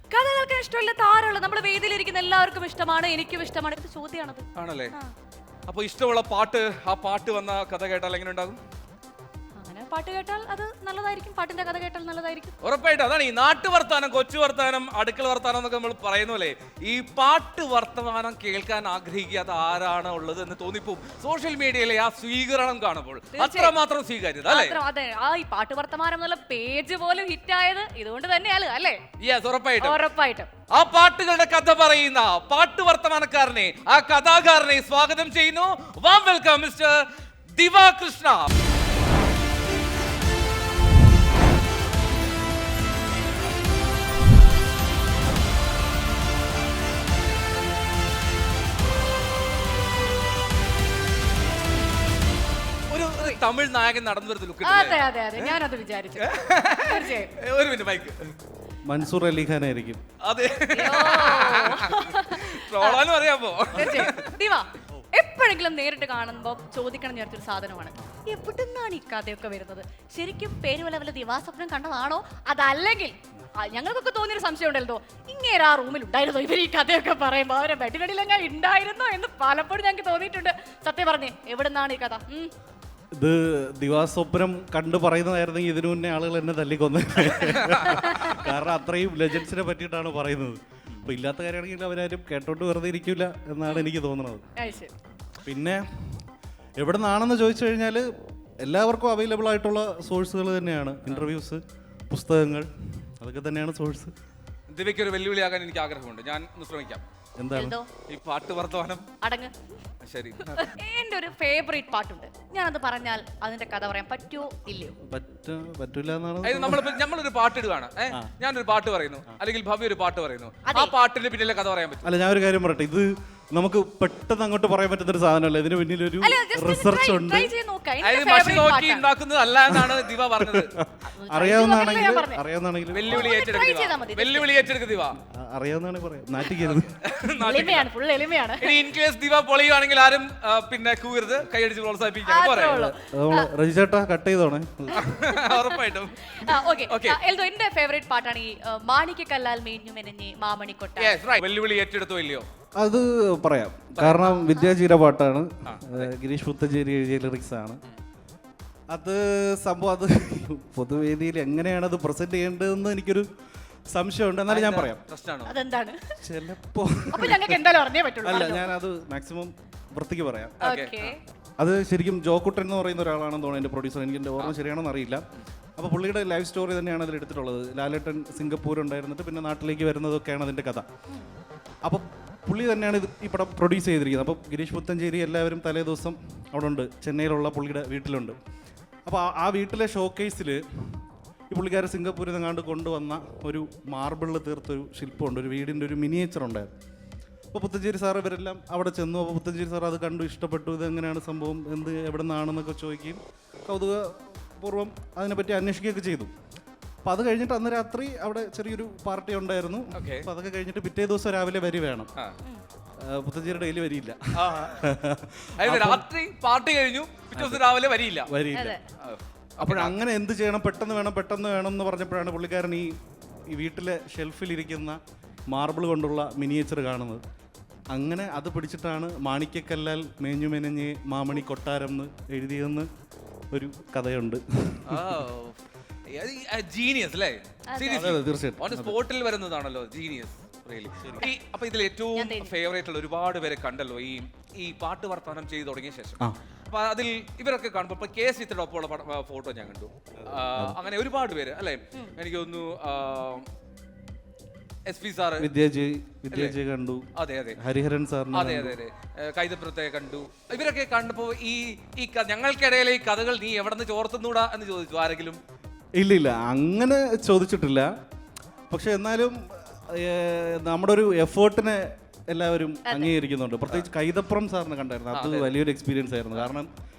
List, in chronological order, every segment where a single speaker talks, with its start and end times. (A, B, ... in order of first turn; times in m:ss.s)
0:00.1-0:05.1 A
0:04.5-0:04.9 B
0:05.7-0:08.6 B
0:09.6-0:12.5 A
0:12.6-0:24.8 B
0:23.3-0:23.8 A
0:24.4-0:29.0 A
0:29.2-0:30.0 B
0:29.8-0:30.5 A
0:30.7-0:38.5 B
0:52.9-0:55.6 B
0:53.2-0:53.4 A
0:54.6-0:57.3 A
0:56.2-0:58.4 B
0:58.9-1:00.0 C
1:00.2-1:04.4 B
1:00.7-1:03.0 A
1:03.7-1:22.5 A
1:23.2-1:34.4 C
1:27.4-1:28.4 B
1:27.9-1:28.2 A
1:34.6-1:34.9 A
1:35.4-1:36.3 C
1:36.8-1:38.1 C
1:38.6-1:44.1 C
1:44.7-1:47.0 B
1:47.4-1:47.8 C
1:47.5-1:47.9 A
1:48.1-1:49.1 B
1:49.2-1:49.5 A
1:50.0-1:50.7 B
1:50.5-1:55.0 A
1:55.0-1:57.0 C
1:56.4-2:02.1 B
2:00.7-2:00.9 A
2:02.0-2:07.5 C
2:06.2-2:09.1 A
2:08.0-2:10.7 B
2:09.7-2:13.4 C
2:11.1-2:12.4 A
2:12.9-2:15.2 B
2:13.0-2:14.5 A
2:15.2-2:17.0 C
2:16.7-2:17.9 B
2:17.4-2:18.7 A
2:18.6-2:22.9 B
2:22.2-2:23.5 A
2:22.7-2:25.2 C
2:24.9-2:31.2 A
2:25.0-2:27.2 B
2:31.0-2:32.4 B
2:32.8-2:37.8 C
2:33.9-2:34.5 B
2:34.5-2:34.7 A
2:35.6-2:36.1 B
2:38.9-2:43.3 C
2:43.9-2:45.0 C
2:44.5-2:45.5 B
2:45.4-2:46.1 A
2:46.2-2:47.6 C
2:47.1-2:48.7 A
2:48.2-2:50.6 C
2:50.6-2:51.1 B
2:50.6-2:51.2 A
2:51.6-2:55.2 C
2:55.8-3:00.8 C
3:01.8-3:08.4 C
3:09.0-3:16.7 C
3:17.5-3:26.3 C
3:27.0-3:32.1 C
3:29.9-3:30.3 B
3:33.0-3:36.0 C
3:34.3-3:34.9 B
3:35.6-3:38.3 B
3:37.3-3:38.8 C
3:38.5-3:38.8 A
3:39.0-3:39.9 B
3:39.6-3:43.0 C
3:43.5-3:45.0 C
3:45.5-3:47.2 C
3:47.9-3:52.9 C
3:53.5-3:55.2 C
3:54.8-4:13.5 B
3:57.7-3:58.0 A
3:57.9-3:59.0 C
4:02.1-4:02.5 A
4:14.9-4:15.5 B
4:15.4-4:18.8 C
4:16.3-4:16.6 B
4:17.2-4:17.6 B
4:18.3-4:25.4 B
4:26.0-4:27.9 C
4:28.7-4:36.7 C
4:32.8-4:33.1 A
4:35.1-4:35.5 B